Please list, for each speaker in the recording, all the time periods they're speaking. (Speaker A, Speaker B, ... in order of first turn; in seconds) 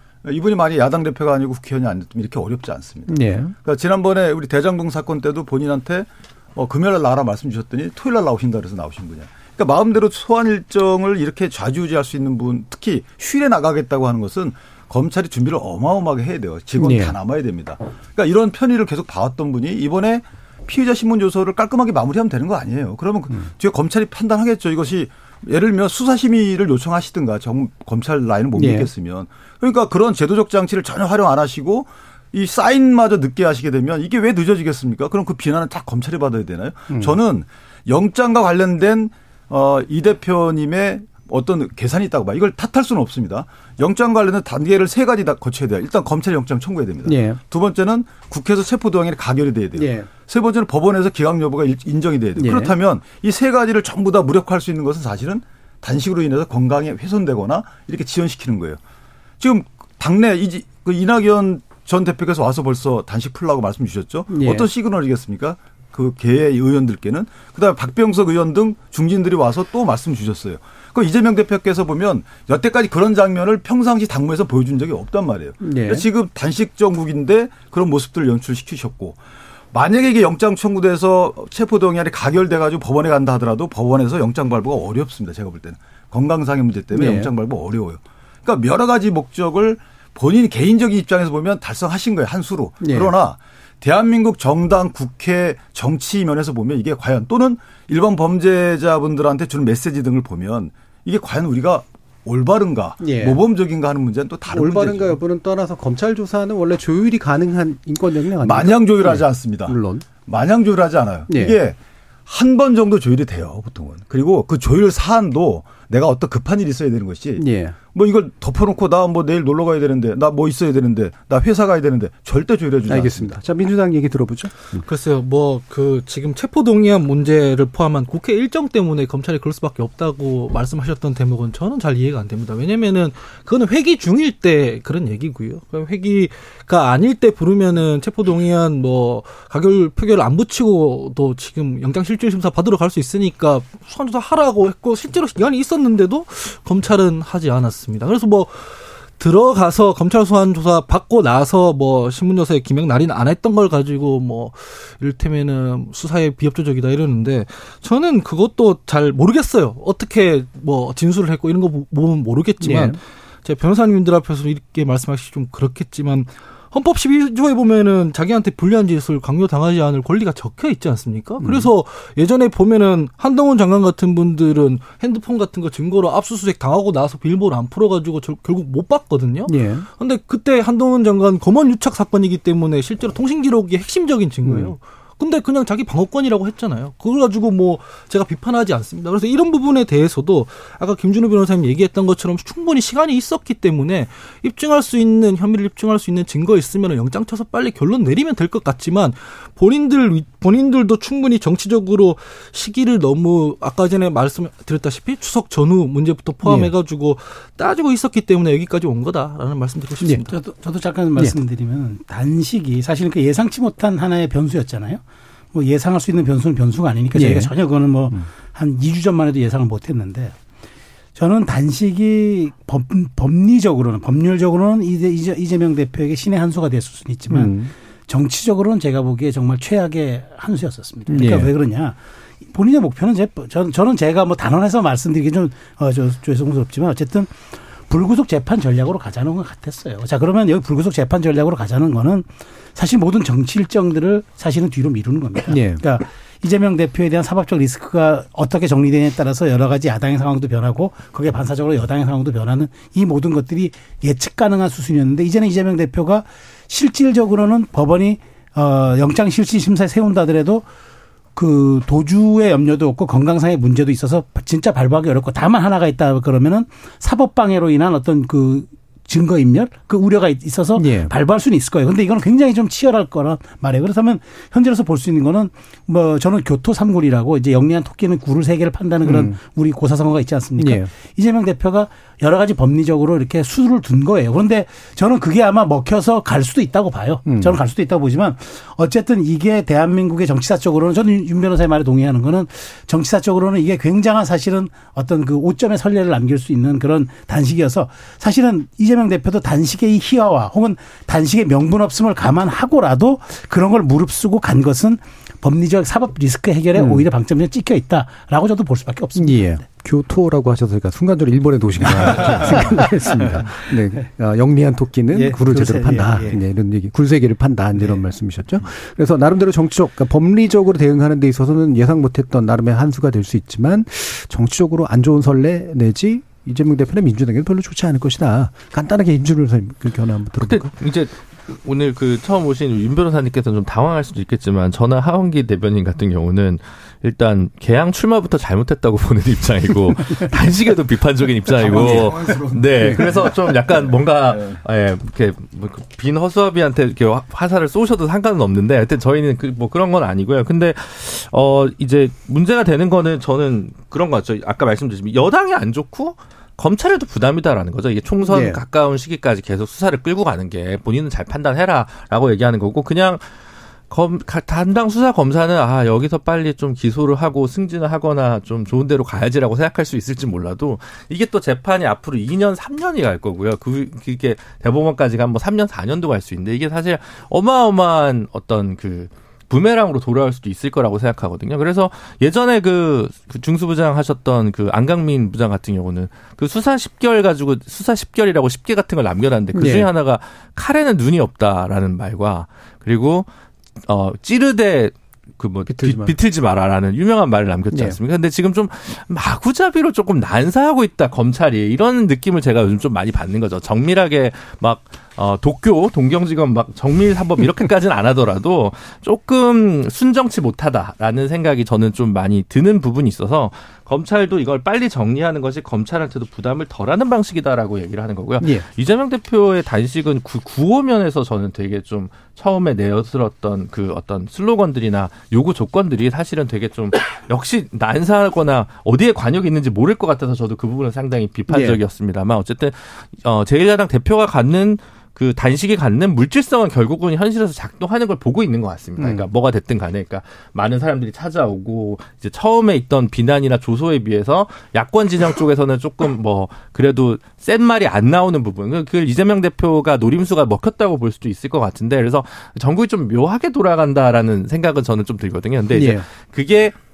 Speaker A: 0.2-58.8, 59.4-79.2, 79.7-105.2, 108.4-123.4, 341.6-344.6
Speaker B: 3.1-3.5, 16.8-17.1, 28.5-28.9, 36.9-37.2, 47.0-47.4, 49.8-50.1, 52.4-52.7, 64.3-64.7, 75.6-76.0, 86.9-87.3, 92.8-93.1, 103.0-103.4, 104.5-110.1, 111.3-111.6, 117.4-117.8, 122.9-124.8, 162.6-163.0, 171.4-171.7, 179.5-179.9, 184.4-184.7, 206.4-206.7, 217.1-217.5, 227.3-227.7, 231.1-231.5, 245.5-245.8, 270.8-271.1, 279.0-279.3, 280.6-280.9, 287.2-287.6, 306.7-307.1, 309.1-330.7, 341.6-342.1, 342.7-343.0, 358.2-358.6, 389.5-389.9, 395.7-396.1, 397.7-398.0, 431.5-431.8, 439.0-439.3, 455.7-456.1
Speaker C: 124.8-210.3
Speaker D: 210.3-215.0, 215.5-220.3, 221.2-227.5, 228.1-232.0, 232.5-260.6, 261.4-309.6, 312.1-312.8, 315.1-316.4
Speaker E: 330.4-363.2, 363.9-393.3, 393.8-456.7